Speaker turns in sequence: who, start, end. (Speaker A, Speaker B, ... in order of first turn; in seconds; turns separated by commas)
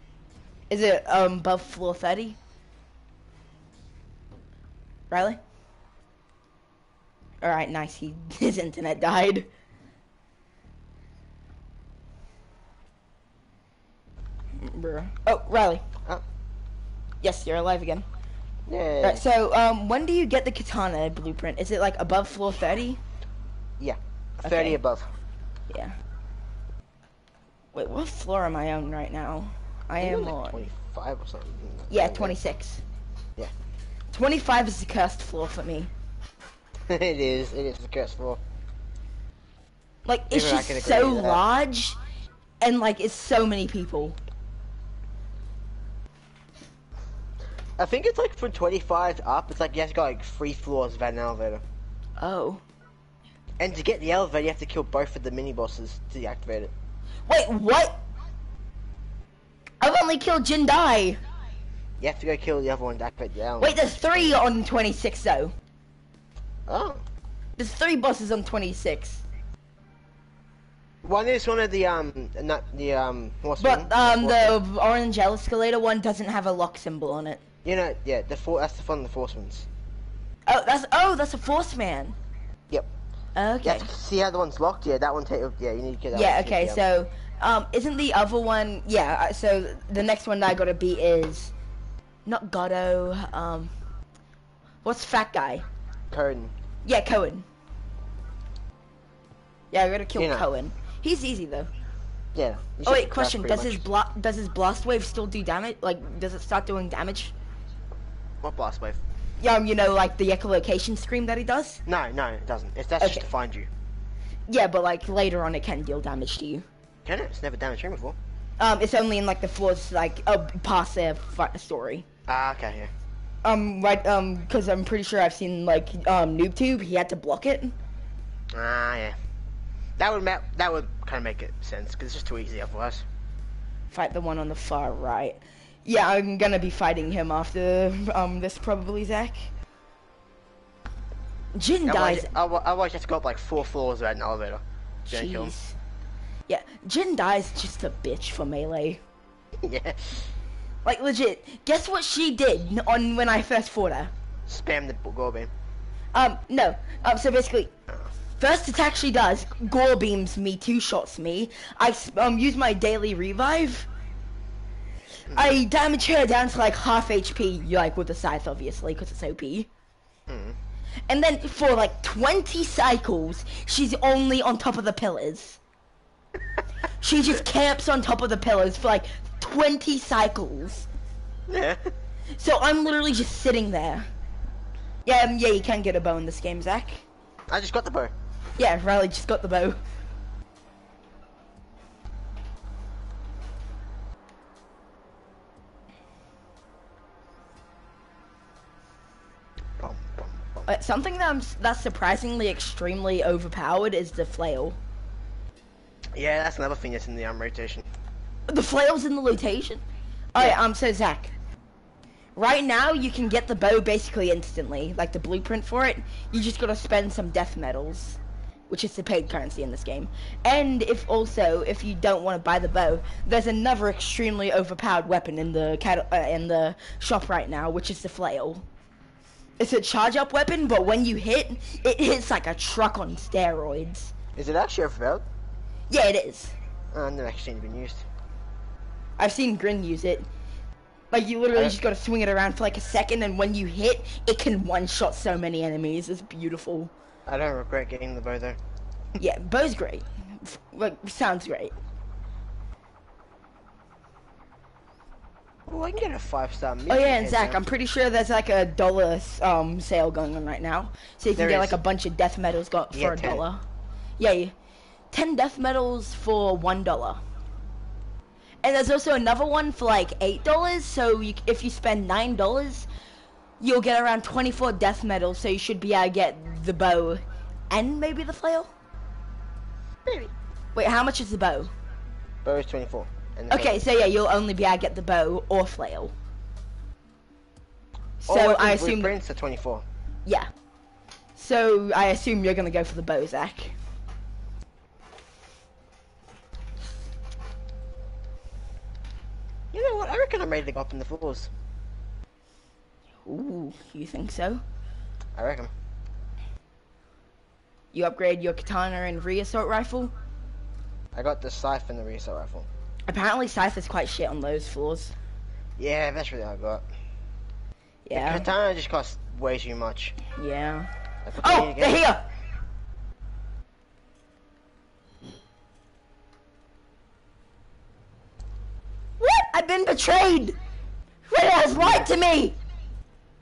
Speaker A: 0.7-2.4, Speaker A: 5.1-5.4, Speaker A: 7.4-9.5, Speaker A: 14.6-15.8, Speaker A: 17.2-18.1, Speaker B: 18.7-19.2, Speaker A: 19.0-23.0, Speaker B: 23.8-25.1, Speaker A: 24.4-24.8, Speaker A: 25.7-26.0, Speaker A: 27.7-30.7, Speaker B: 30.0-32.3, Speaker A: 31.9-32.8, Speaker A: 34.1-35.9, Speaker B: 36.9-38.4, Speaker A: 40.0-42.0, Speaker B: 40.3-41.4, Speaker A: 42.6-44.2, Speaker B: 47.8-51.6, Speaker A: 52.2-52.6, Speaker B: 53.6-56.7, Speaker A: 57.3-58.0, Speaker A: 59.8-61.2, Speaker B: 62.0-64.4, Speaker A: 63.6-65.5, Speaker B: 66.7-67.0, Speaker A: 67.6-69.2, Speaker B: 71.0-74.6, Speaker A: 73.6-77.4, Speaker B: 77.6-79.7, Speaker A: 80.5-82.2, Speaker A: 83.3-83.9, Speaker B: 83.6-86.8, Speaker A: 86.1-91.5, Speaker A: 92.2-93.7, Speaker A: 94.8-95.6, Speaker B: 96.1-96.5, Speaker A: 96.8-97.5, Speaker A: 99.7-101.7, Speaker B: 100.1-100.5, Speaker B: 102.3-103.8, Speaker A: 102.8-107.3, Speaker B: 108.4-109.0, Speaker A: 109.4-111.8, Speaker B: 111.8-113.7, Speaker A: 113.0-113.3, Speaker A: 114.5-116.7, Speaker B: 117.0-118.2, Speaker A: 118.6-122.0, Speaker B: 122.3-122.9, Speaker A: 123.4-127.8, Speaker B: 128.5-129.2, Speaker B: 130.0-133.0, Speaker A: 133.9-139.5, Speaker A: 141.5-142.3, Speaker B: 141.8-145.5, Speaker A: 145.1-145.8, Speaker A: 146.5-149.0, Speaker B: 149.6-150.3, Speaker A: 150.8-154.1, Speaker B: 154.5-155.5, Speaker A: 156.1-157.7, Speaker A: 158.4-163.9, Speaker B: 165.3-165.5, Speaker A: 165.3-169.7, Speaker B: 170.3-170.6, Speaker A: 171.1-175.6, Speaker A: 177.0-180.9, Speaker B: 181.5-181.9, Speaker A: 182.4-184.1, Speaker A: 185.0-187.0, Speaker B: 187.5-188.1, Speaker A: 188.6-189.8, Speaker B: 199.8-200.7, Speaker A: 200.7-204.8, Speaker B: 206.1-207.8, Speaker A: 208.5-209.8, Speaker A: 210.3-211.3, Speaker A: 212.3-228.7, Speaker A: 229.6-234.1, Speaker B: 234.3-235.2, Speaker A: 235.9-236.5, Speaker B: 236.9-238.1, Speaker A: 239.2-240.3, Speaker A: 241.1-246.9, Speaker B: 247.2-248.6, Speaker A: 249.2-251.7, Speaker B: 255.7-257.6, Speaker A: 256.9-263.6, Speaker B: 261.3-261.8, Speaker B: 262.9-263.4, Speaker A: 264.2-264.5, Speaker A: 265.1-267.2, Speaker A: 268.6-272.9, Speaker A: 273.6-278.7, Speaker B: 280.0-280.3, Speaker A: 280.7-281.7, Speaker B: 282.4-283.9, Speaker A: 283.5-286.1, Speaker A: 288.2-289.1, Speaker B: 288.3-289.8, Speaker A: 291.4-293.8, Speaker B: 299.7-301.5, Speaker A: 303.2-304.6, Speaker B: 305.3-305.7, Speaker A: 307.9-310.1, Speaker B: 311.1-312.7, Speaker A: 313.1-315.1, Speaker B: 315.8-316.8, Speaker A: 318.0-318.5, Speaker B: 318.1-320.1, Speaker A: 320.4-320.9, Speaker B: 321.2-322.0, Speaker A: 321.4-322.2, Speaker A: 329.2-330.6, Speaker A: 331.3-332.6